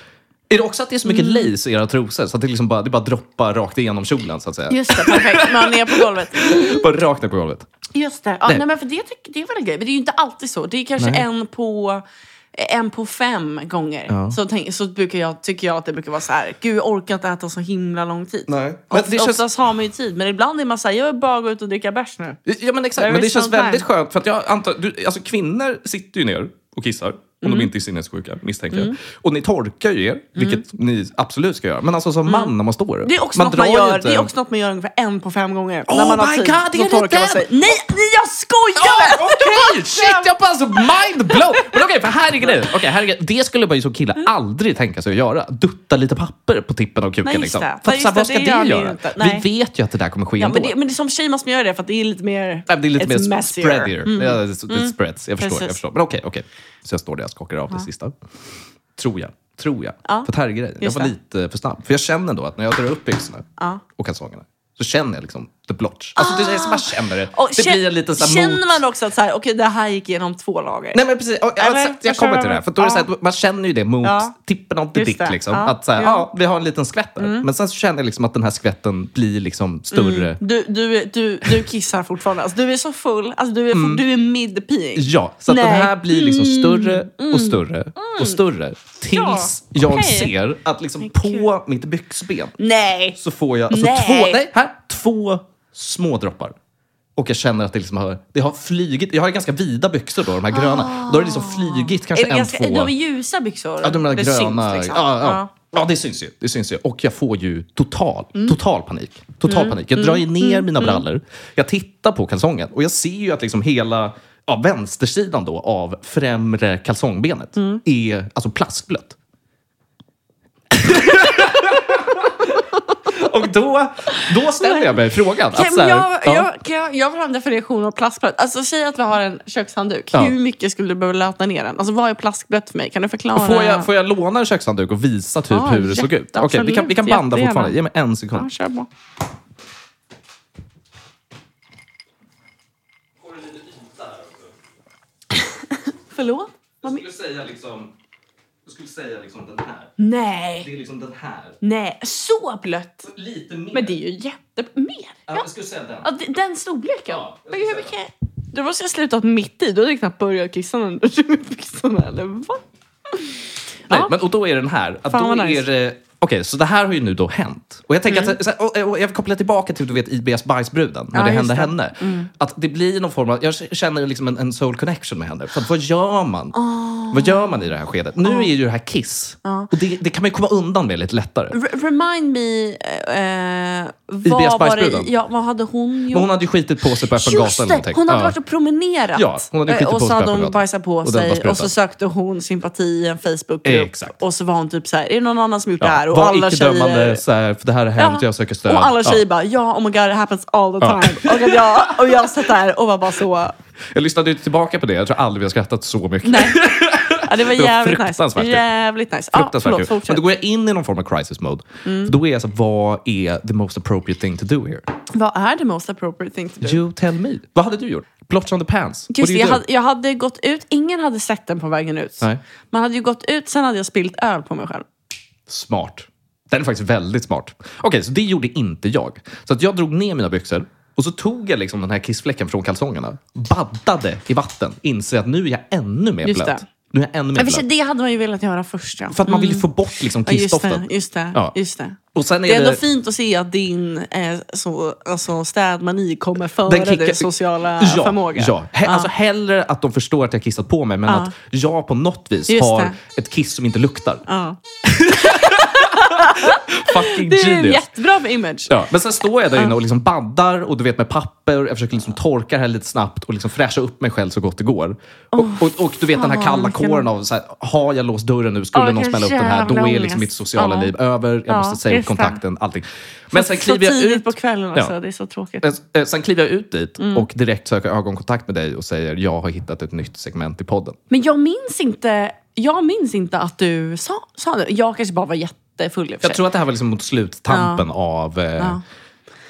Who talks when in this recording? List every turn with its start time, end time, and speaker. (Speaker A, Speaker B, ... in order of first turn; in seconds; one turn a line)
Speaker A: 0.5-7.7
Speaker B: 1.1-1.5
Speaker B: 4.7-6.9
Speaker B: 7.9-22.4
Speaker A: 11.0-11.2
Speaker A: 14.1-14.4
Speaker A: 18.5-19.4
Speaker A: 22.4-34.3
Speaker B: 23.0-23.8
Speaker B: 27.4-27.7
Speaker B: 30.4-30.6
Speaker B: 32.2-32.5
Speaker B: 33.0-41.8
Speaker A: 35.9-37.5
Speaker A: 38.8-50.7
Speaker B: 47.2-49.5
Speaker B: 50.4-55.8
Speaker A: 52.7-58.1
Speaker A: 59.0-68.8
Speaker B: 60.8-61.1
Speaker B: 66.2-71.0
Speaker A: 70.9-80.4
Speaker B: 71.6-73.1
Speaker B: 74.0-74.3
Speaker B: 74.9-76.2
Speaker B: 77.2-77.5
Speaker B: 79.9-88.4
Speaker A: 83.7-84.0
Speaker A: 84.9-92.5
Speaker B: 89.0-90.3
Speaker B: 91.0-91.5
Speaker B: 92.6-93.2
Speaker A: 93.2-96.5
Speaker B: 93.7-94.4
Speaker A: 97.2-102.9
Speaker B: 100.5-105.5
Speaker A: 103.8-119.2
Speaker B: 109.4-111.0
Speaker B: 117.5-117.8
Speaker A: 120.7-126.5
Speaker B: 124.2-133.9
Speaker A: 133.3-138.5
Speaker B: 135.5-137.8
Speaker B: 138.3-138.9
Speaker A: 143.2-144.5
Speaker B: 146.1-147.0
Speaker A: 146.8-147.9
Speaker A: 148.7-150.0
Speaker B: 150.0-150.7
Speaker A: 150.6-151.6
Speaker B: 151.6-153.1
Speaker A: 153.1-154.0
Speaker B: 153.7-155.4
Speaker A: 155.3-156.1
Speaker B: 156.0-164.1
Speaker A: 157.1-157.9
Speaker A: 163.9-176.6
Speaker B: 165.1-165.6
Speaker B: 168.1-168.4
Speaker B: 171.1-172.3
Speaker B: 176.5-177.7
Speaker A: 177.1-181.6
Speaker B: 178.2-178.5
Speaker B: 179.4-179.7
Speaker B: 181.5-186.3
Speaker A: 184.2-185.1
Speaker A: 186.1-188.3
Speaker B: 186.9-197.2
Speaker A: 189.1-191.7
Speaker A: 193.6-194.2
Speaker A: 195.8-199.2
Speaker B: 198.0-203.5
Speaker A: 200.8-202.3
Speaker A: 203.9-208.7
Speaker B: 206.2-210.2
Speaker A: 209.3-214.9
Speaker B: 211.8-212.1
Speaker B: 215.1-216.8
Speaker A: 216.6-219.6
Speaker B: 219.1-224.9
Speaker A: 225.5-237.6
Speaker B: 236.2-236.6
Speaker B: 237.3-249.1
Speaker A: 239.1-241.5
Speaker A: 242.1-242.8
Speaker A: 246.6-254.2
Speaker B: 251.1-251.3
Speaker B: 252.5-252.9
Speaker B: 254.2-258.8
Speaker A: 254.8-257.9
Speaker A: 258.7-274.9
Speaker B: 265.3-267.1
Speaker B: 268.7-270.9
Speaker B: 271.5-272.4
Speaker B: 273.3-275.6
Speaker A: 275.6-281.0
Speaker B: 277.0-277.3
Speaker B: 281.1-286.4
Speaker A: 286.2-288.8
Speaker B: 287.5-287.8